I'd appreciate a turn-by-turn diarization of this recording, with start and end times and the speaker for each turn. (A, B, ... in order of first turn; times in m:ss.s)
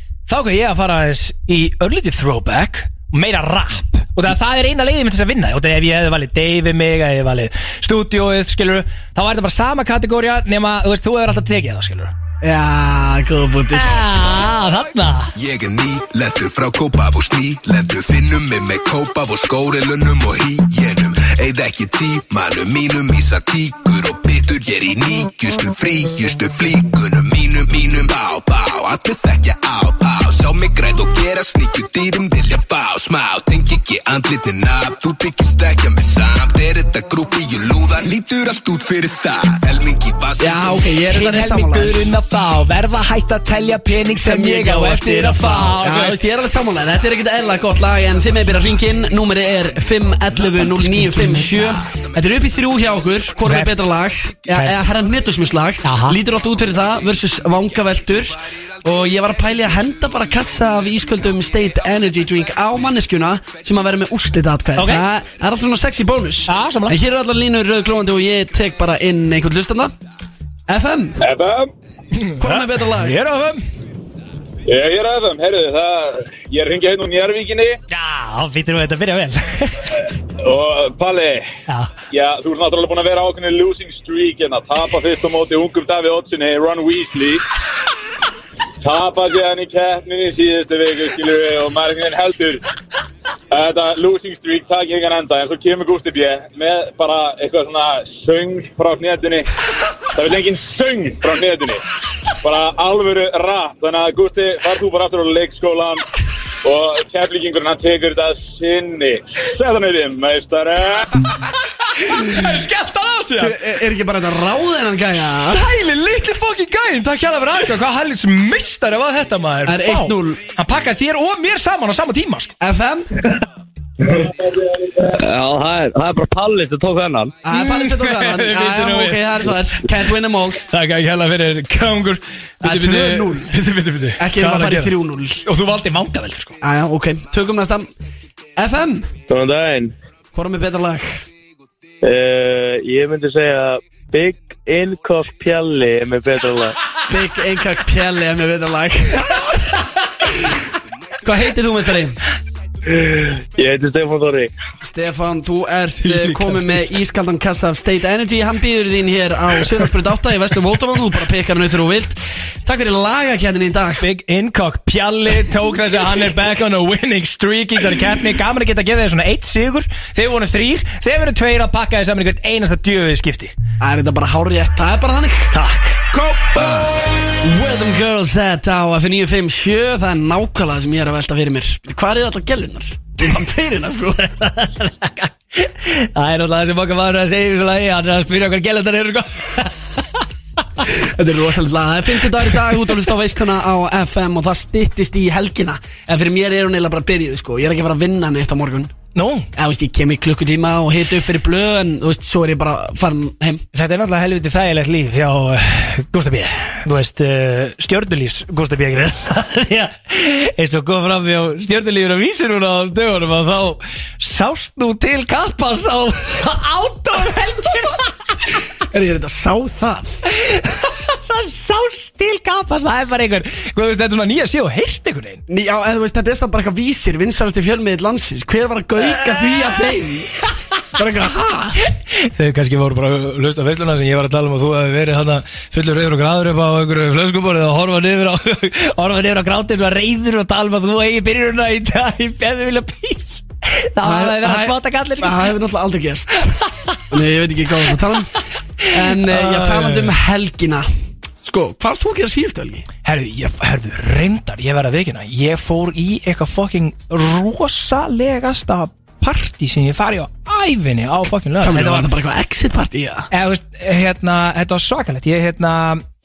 0:00.3-0:12.1 A
0:12.4-0:14.0 B
0:13.7-0:15.3 A
0:15.3-0:40.8 C
0:40.4-0:42.1 B
0:41.1-0:46.2 A
0:44.1-1:09.9 B
0:50.8-0:51.6 A
0:53.4-0:53.7 A
0:54.5-0:54.8 A
0:55.8-0:56.2 A
1:04.8-1:05.0 A
1:06.5-1:07.0 A
1:10.7-1:11.2 B
1:11.2-1:11.7 D
1:12.1-1:13.6 A
1:12.4-1:13.2 B
1:14.7-1:17.8 D
1:17.9-1:19.9 A
1:20.4-1:21.5 D
1:22.1-1:27.4 D
1:28.8-1:32.6 D
1:33.5-1:39.5 D
1:40.1-1:41.8 D
1:42.4-1:46.0 D
1:46.6-1:51.1 D
1:52.0-1:53.6 A
1:53.4-1:55.7 B
1:55.5-2:02.5 A
1:59.6-2:00.5 B
2:02.6-2:03.1 B
2:04.1-2:04.3 E
2:05.0-2:07.3 E
2:07.4-2:10.6 B
2:07.5-2:09.6 A
2:10.7-2:16.6 A
2:12.6-2:15.4 B
2:16.6-2:17.9 B
2:18.6-2:19.1 B
2:19.3-2:19.9 E
2:20.3-2:21.2 B
2:22.0-2:26.8 E
2:27.1-2:29.5 B
2:31.2-2:32.2 B
2:32.9-2:34.5 E
2:34.8-2:44.0 B
2:36.0-2:36.9 A
2:44.0-2:53.5 A
2:53.8-2:55.5 B
2:55.5-2:56.1 A
2:57.4-3:04.2 B
3:04.2-3:09.8 A
3:10.9-3:18.9 B
3:19.1-3:19.5 A
3:19.5-3:23.6 B
3:23.7-3:38.1 A
3:38.9-3:40.2 B
3:40.3-3:45.4 A
3:45.5-3:50.3 B
3:49.2-3:49.8 A
3:51.0-3:51.8 B
3:52.1-4:05.5 A
4:04.0-4:06.6 B
4:07.1-4:10.9 B
4:08.8-4:10.1 A
4:11.4-4:12.9 B
4:13.0-4:22.1 A
4:21.6-4:23.3 B
4:23.3-4:26.0 A